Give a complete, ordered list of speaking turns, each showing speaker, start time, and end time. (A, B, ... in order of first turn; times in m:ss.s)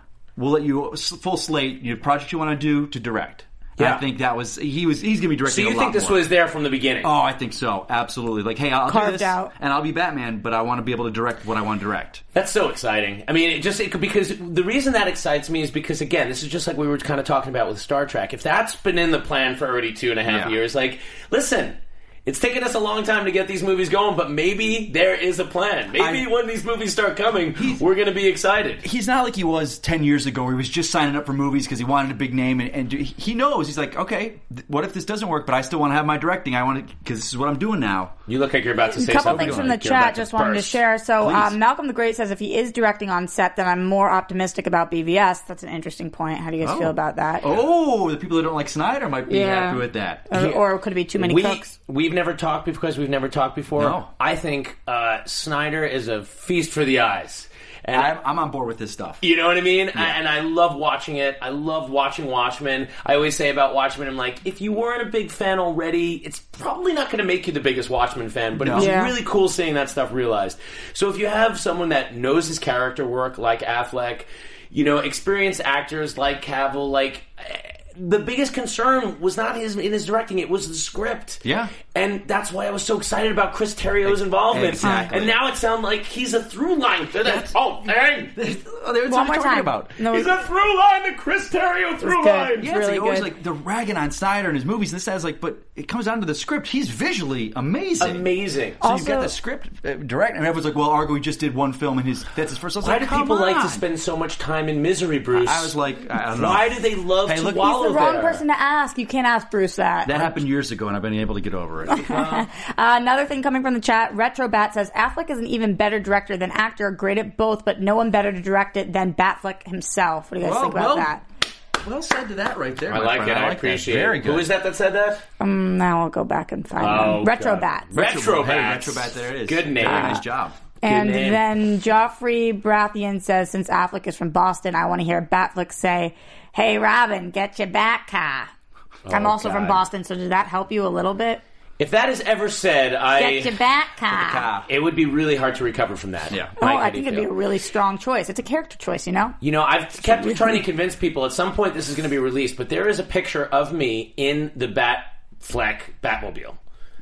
0:00.4-0:06.3 A
0:03.8-0:04.0 B
0:05.4-0:07.1 B
0:07.0-0:12.2 A
0:08.9-0:09.5 C
0:12.3-0:28.8 B
0:20.2-0:20.6 A
0:26.0-0:26.3 A
0:27.6-0:27.8 A
0:28.8-0:38.1 A
0:38.3-0:40.8 B
0:38.9-0:47.4 C
0:39.2-0:39.8 A
0:41.2-0:41.6 A
0:46.6-0:50.3 A
0:49.3-0:51.7 C
0:51.2-0:58.1 B
0:53.8-0:54.1 A
0:57.9-0:59.2 A
0:59.2-1:28.3 B
1:08.6-1:08.9 A
1:08.7-1:09.1 C
1:21.4-1:21.7 A
1:24.0-1:25.4 A
1:24.8-1:25.1 C
1:27.2-1:27.6 A
1:28.3-1:30.0 A
1:29.1-1:30.3 C
1:30.1-1:32.7 B
1:32.0-1:33.3 C
1:32.6-1:38.3 A
1:38.0-1:38.8 B
1:38.8-1:43.8 A
1:38.8-1:39.3 C
1:42.8-1:45.7 B
1:45.3-1:47.7 A
1:46.3-1:48.4 B
1:47.4-1:50.3 C
1:50.0-1:52.2 A
1:51.9-2:01.2 C
1:52.0-1:52.4 B
2:00.4-2:01.1 A
2:01.8-2:04.5 A
2:02.9-2:05.2 B
2:05.4-2:07.9 C
2:06.8-2:10.2 B
2:07.9-2:10.6 A
2:09.8-2:10.2 C
2:10.8-2:18.5 C
2:10.8-2:11.4 B
2:19.0-2:19.8 B
2:19.1-2:21.4 C
2:21.8-2:23.6 B
2:23.2-2:24.5 C
2:24.1-2:24.7 A
2:24.7-2:27.3 B
2:26.6-2:29.3 C
2:29.4-2:36.6 B
2:30.2-2:30.5 C